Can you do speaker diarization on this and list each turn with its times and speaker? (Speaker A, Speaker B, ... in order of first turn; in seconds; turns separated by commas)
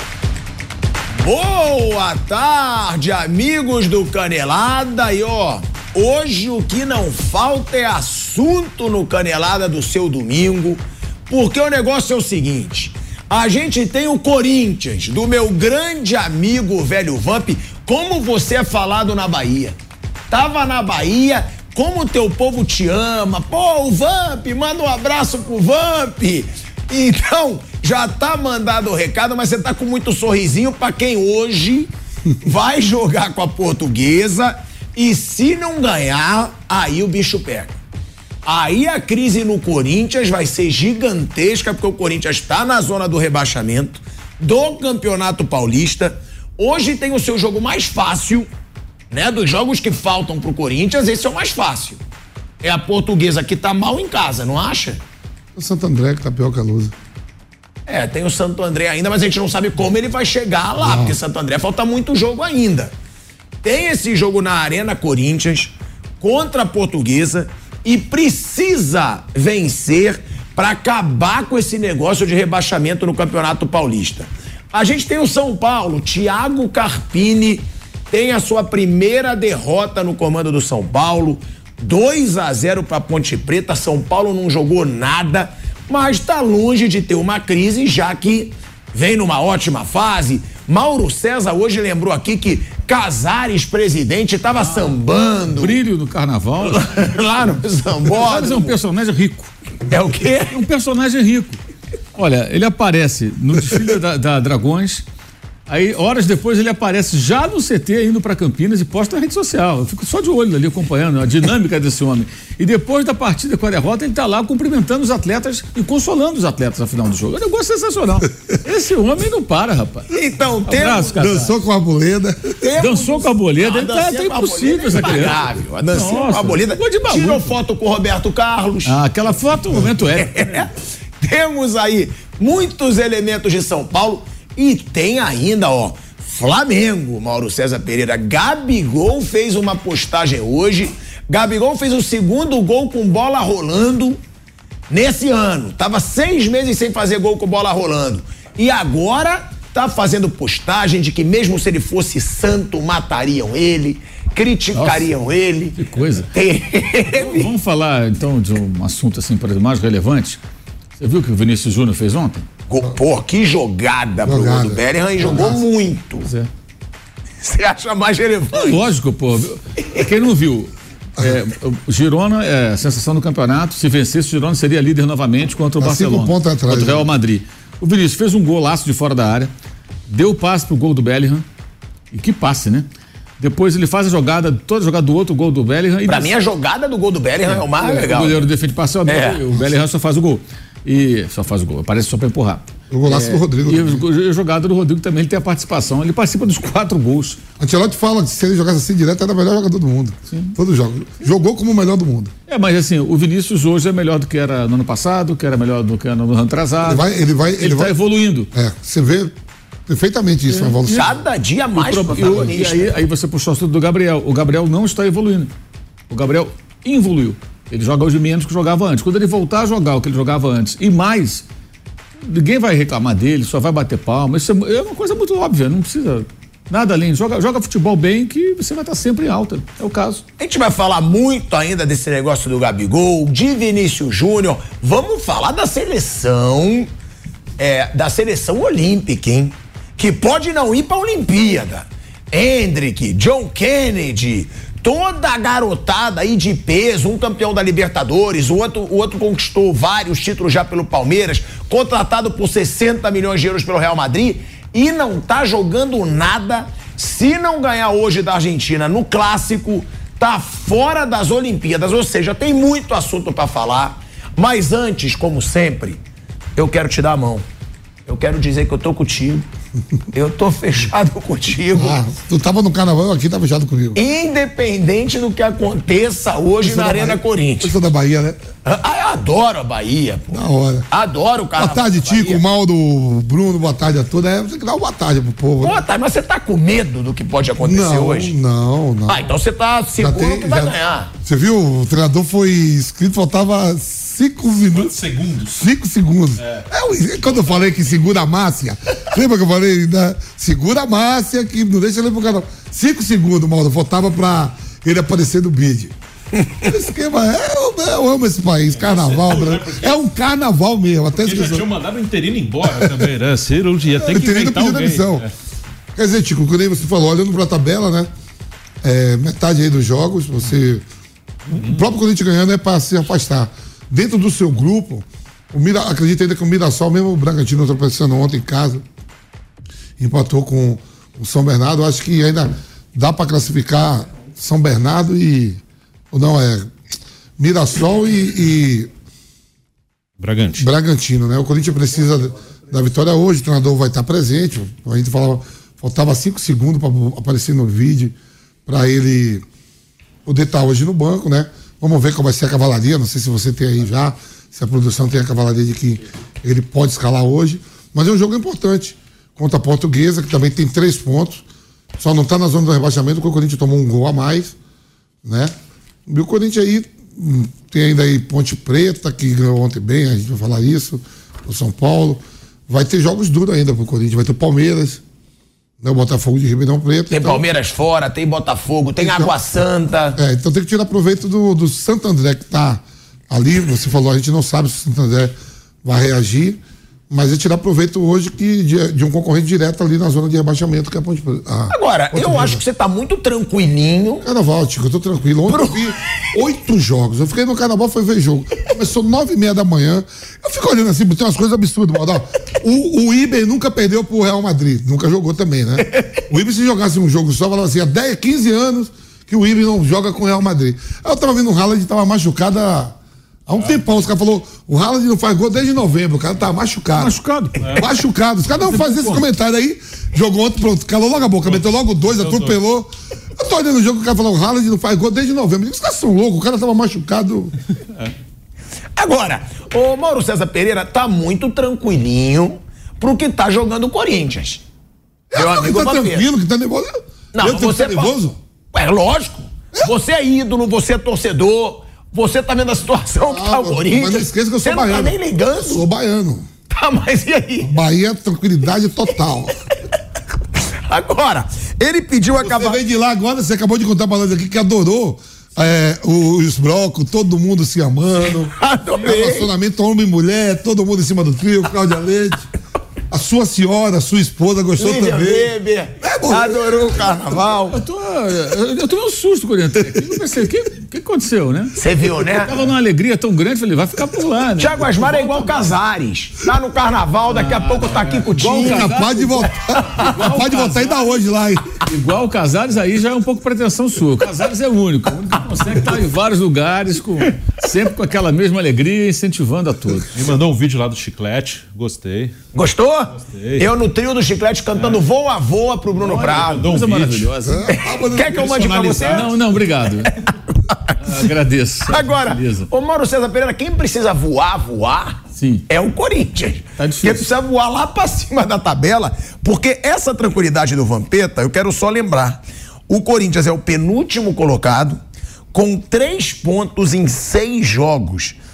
Speaker A: 1.2-19.8, Speaker A: 20.3-37.8, Speaker A: 38.4-48.5, Speaker A: 49.1-52.0, Speaker A: 52.6-55.0, Speaker B: 55.5-56.9, Speaker A: 57.9-62.9, Speaker B: 60.8-61.2, Speaker A: 63.6-95.8, Speaker C: 95.5-96.8, Speaker A: 96.6-98.7, Speaker C: 98.1-99.5, Speaker A: 99.9-100.6, Speaker C: 100.5-101.6, Speaker C: 102.2-105.0, Speaker C: 105.7-120.1, Speaker A: 120.1-121.2, Speaker C: 120.7-121.5, Speaker B: 121.2-122.6, Speaker A: 122.6-129.0, Speaker C: 122.8-125.4, Speaker C: 125.9-127.5, Speaker C: 128.8-130.5, Speaker A: 129.9-144.2, Speaker A: 144.9-155.8, Speaker C: 154.7-155.2, Speaker C: 155.8-156.3, Speaker A: 156.3-157.5, Speaker C: 157.1-160.4, Speaker C: 161.0-162.4, Speaker A: 162.7-166.3, Speaker B: 164.2-165.6, Speaker C: 165.3-165.6, Speaker C: 166.2-166.5, Speaker A: 167.4-168.9, Speaker C: 168.5-179.5, Speaker B: 175.8-177.1, Speaker C: 180.1-181.4, Speaker C: 182.1-182.8, Speaker C: 183.4-186.3, Speaker A: 186.1-188.4, Speaker C: 187.5-197.4, Speaker A: 189.1-189.4, Speaker B: 192.9-194.0, Speaker B: 197.6-202.3, Speaker C: 202.5-208.5, Speaker B: 206.8-207.9, Speaker B: 208.5-209.3, Speaker B: 209.9-211.1, Speaker C: 210.5-211.0, Speaker A: 210.8-212.9, Speaker C: 211.7-215.5, Speaker C: 216.1-221.4, Speaker C: 222.2-230.2, Speaker A: 230.4-236.9, Speaker A: 237.6-266.0, Speaker A: 266.6-267.4, Speaker A: 268.1-269.4, Speaker A: 270.1-272.0, Speaker B: 271.7-274.0, Speaker A: 273.9-277.8, Speaker B: 276.6-278.4, Speaker A: 278.6-282.4, Speaker B: 280.3-280.9, Speaker B: 281.6-285.8, Speaker A: 285.6-288.3, Speaker B: 287.6-289.3, Speaker A: 289.1-291.1, Speaker B: 290.0-294.9, Speaker D: 294.7-295.6, Speaker B: 295.5-305.9, Speaker D: 296.4-296.6, Speaker B: 306.6-311.7, Speaker D: 308.8-310.0, Speaker D: 311.1-315.3, Speaker B: 312.6-313.1, Speaker B: 313.9-315.3, Speaker B: 315.9-318.1, Speaker B: 318.8-320.8, Speaker B: 321.5-328.8, Speaker D: 321.5-321.8, Speaker B: 330.0-335.6, Speaker B: 336.1-336.7, Speaker B: 337.4-338.9, Speaker D: 340.2-340.7, Speaker B: 340.6-348.1, Speaker B: 348.7-349.4, Speaker B: 350.2-361.4, Speaker B: 361.9-364.5, Speaker B: 365.2-365.5, Speaker B: 366.1-375.0, Speaker B: 375.8-377.4, Speaker A: 377.1-380.2, Speaker B: 379.0-379.3, Speaker B: 380.1-392.6, Speaker A: 391.7-394.2, Speaker B: 394.2-412.9, Speaker A: 395.5-395.8, Speaker B: 413.5-417.2, Speaker C: 416.9-417.8, Speaker D: 417.6-417.9, Speaker B: 417.8-427.5, Speaker C: 418.6-419.2, Speaker D: 421.4-422.6, Speaker A: 428.9-434.6, Speaker B: 435.3-438.4, Speaker A: 435.3-436.3, Speaker A: 437.3-438.1, Speaker A: 438.7-445.8, Speaker B: 443.2-446.5, Speaker A: 446.7-447.7, Speaker B: 447.6-449.5, Speaker A: 450.9-452.8, Speaker B: 452.3-462.5, Speaker A: 458.5-459.5, Speaker B: 463.1-467.3, Speaker A: 464.8-467.8, Speaker C: 467.7-471.8, Speaker A: 471.8-472.6, Speaker C: 472.4-475.6, Speaker A: 474.6-478.9, Speaker C: 477.3-481.2, Speaker B: 478.3-481.8, Speaker C: 481.8-490.2, Speaker D: 490.1-492.3, Speaker A: 492.5-496.7, Speaker D: 493.1-493.7, Speaker D: 494.7-495.0, Speaker C: 496.0-497.7, Speaker D: 496.1-497.3, Speaker B: 497.4-498.8, Speaker A: 497.7-499.3, Speaker D: 498.1-499.4, Speaker C: 499.1-500.1, Speaker A: 500.0-501.2, Speaker C: 501.0-502.7, Speaker A: 501.9-515.0, Speaker C: 505.4-505.6, Speaker C: 506.8-507.2, Speaker A: 515.5-518.4